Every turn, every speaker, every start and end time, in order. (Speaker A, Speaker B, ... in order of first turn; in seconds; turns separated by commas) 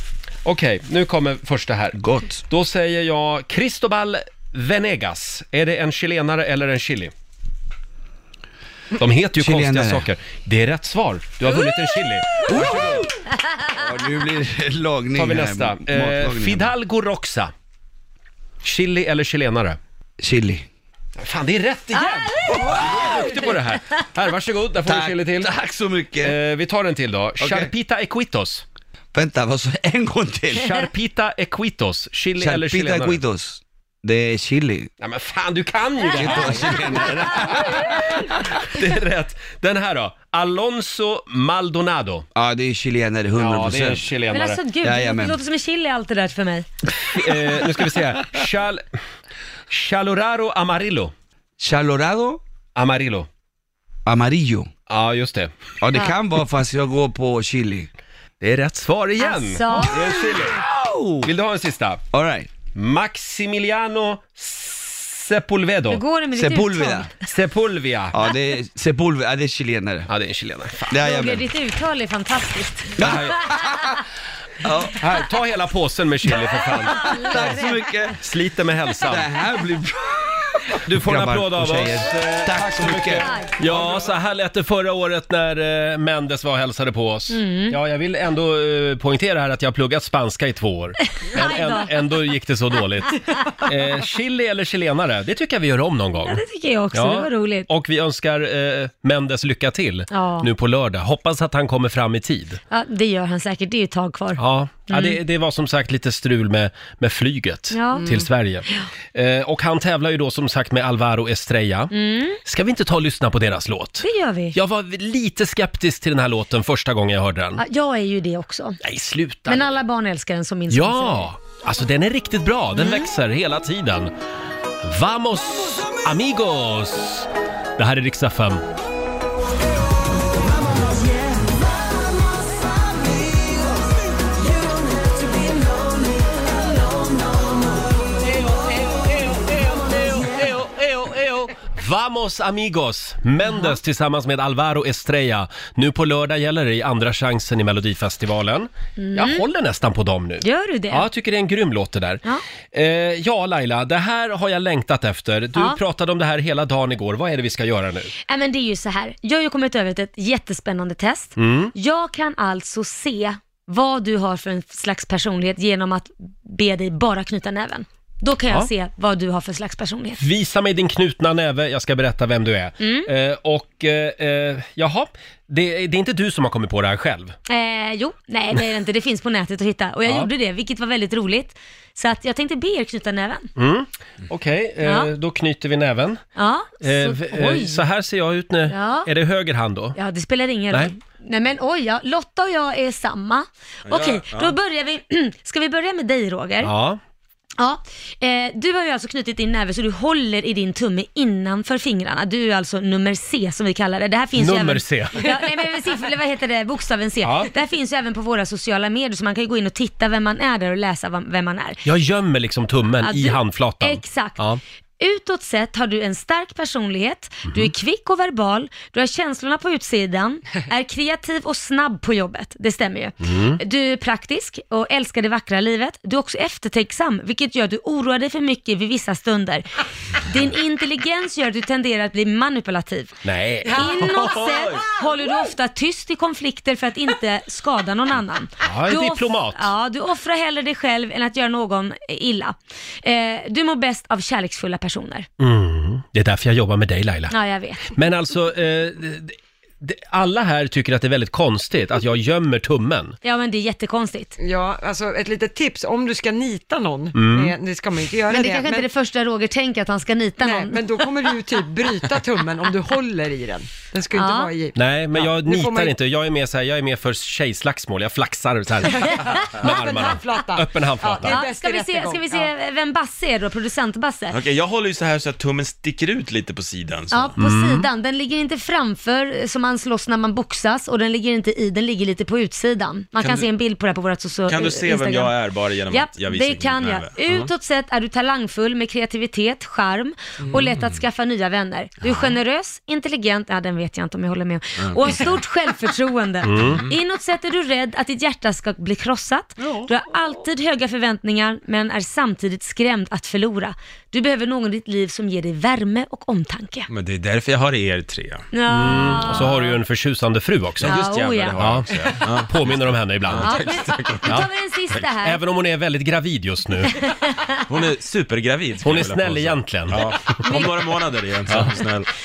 Speaker A: 0.5-7.1, Speaker B: 1.9-2.4, Speaker A: 9.0-13.1, Speaker B: 9.4-10.1, Speaker B: 12.5-13.1, Speaker B: 13.6-16.7, Speaker A: 15.1-17.5, Speaker A: 18.6-19.8, Speaker B: 20.2-20.7, Speaker A: 21.2-25.5, Speaker C: 22.2-22.9, Speaker B: 22.7-23.1, Speaker B: 24.8-26.4, Speaker A: 26.2-28.6, Speaker B: 27.4-27.7, Speaker B: 29.1-30.8, Speaker A: 30.5-33.2, Speaker B: 32.4-34.9, Speaker A: 35.0-42.3, Speaker B: 36.1-38.0, Speaker B: 42.4-44.1, Speaker A: 43.4-44.6, Speaker C: 44.3-46.7, Speaker B: 44.8-45.4, Speaker A: 47.1-48.8, Speaker A: 49.7-51.1, Speaker B: 51.6-52.4, Speaker A: 52.8-53.3, Speaker B: 54.1-54.7, Speaker A: 54.9-55.5, Speaker B: 55.8-57.9, Speaker A: 58.4-60.6, Speaker C: 59.2-60.3, Speaker B: 60.7-61.3, Speaker A: 61.2-62.0, Speaker B: 62.1-62.5, Speaker A: 62.7-66.0, Speaker C: 65.9-67.1, Speaker B: 66.3-67.1, Speaker A: 67.3-68.2, Speaker B: 68.1-70.1, Speaker A: 70.1-70.9, Speaker B: 70.9-71.5, Speaker C: 70.9-73.2, Speaker B: 73.0-74.0, Speaker A: 73.0-73.4, Speaker B: 74.6-75.0, Speaker A: 74.9-77.6, Speaker C: 77.0-77.8, Speaker B: 77.0-78.2, Speaker A: 78.2-79.3, Speaker B: 79.1-84.0, Speaker A: 80.8-96.4, Speaker C: 83.2-83.5, Speaker C: 87.3-87.8, Speaker C: 91.3-91.9, Speaker C: 96.2-97.7, Speaker A: 96.9-102.6, Speaker C: 100.1-100.5, Speaker C: 102.7-105.2, Speaker A: 104.4-111.9, Speaker C: 107.7-108.1, Speaker D: 108.0-108.2, Speaker C: 111.9-112.4, Speaker A: 112.5-117.6, Speaker C: 114.0-114.6, Speaker C: 117.6-118.8, Speaker A: 118.8-119.6, Speaker C: 119.5-121.3, Speaker A: 120.7-124.1, Speaker C: 122.8-123.1, Speaker A: 124.8-128.6, Speaker A: 138.2-152.2, Speaker C: 143.5-143.8, Speaker C: 149.0-149.4, Speaker C: 150.4-151.1, Speaker A: 152.7-158.1, Speaker C: 158.3-170.2, Speaker A: 161.4-161.7, Speaker A: 170.2-177.3, Speaker C: 172.8-173.1, Speaker C: 177.5-183.5, Speaker A: 183.6-186.2, Speaker C: 184.8-185.1, Speaker C: 186.4-187.8, Speaker A: 186.8-190.0, Speaker C: 188.7-189.1, Speaker C: 189.9-196.7, Speaker E: 193.9-194.5, Speaker A: 196.6-197.0, Speaker C: 197.6-211.8, Speaker A: 204.4-205.3, Speaker A: 207.2-207.5, Speaker A: 211.8-214.6, Speaker C: 213.0-214.4, Speaker C: 215.0-233.2, Speaker A: 223.2-223.6, Speaker A: 233.2-234.3, Speaker C: 233.7-245.3, Speaker A: 238.6-239.7, Speaker A: 245.4-247.3, Speaker C: 247.3-247.9, Speaker A: 247.9-253.2, Speaker C: 253.2-254.3, Speaker D: 254.4-258.9, Speaker A: 257.1-257.5, Speaker C: 258.3-261.0, Speaker D: 260.4-265.9, Speaker C: 264.1-264.5, Speaker A: 264.8-271.4, Speaker D: 268.9-272.5, Speaker C: 271.2-274.4, Speaker E: 274.3-277.4, Speaker C: 277.1-285.4, Speaker A: 277.4-277.9, Speaker E: 283.2-283.5, Speaker E: 284.5-287.5, Speaker C: 285.9-306.9, Speaker E: 290.5-291.0, Speaker E: 292.0-292.3, Speaker E: 294.8-295.4, Speaker A: 296.4-296.8, Speaker E: 296.6-297.0, Speaker E: 306.9-308.5, Speaker C: 308.5-309.8, Speaker A: 308.7-311.0, Speaker E: 310.8-315.0, Speaker C: 310.8-311.6, Speaker A: 311.6-313.6, Speaker C: 313.4-315.4, Speaker A: 315.2-317.0, Speaker E: 317.7-322.1, Speaker A: 318.8-320.3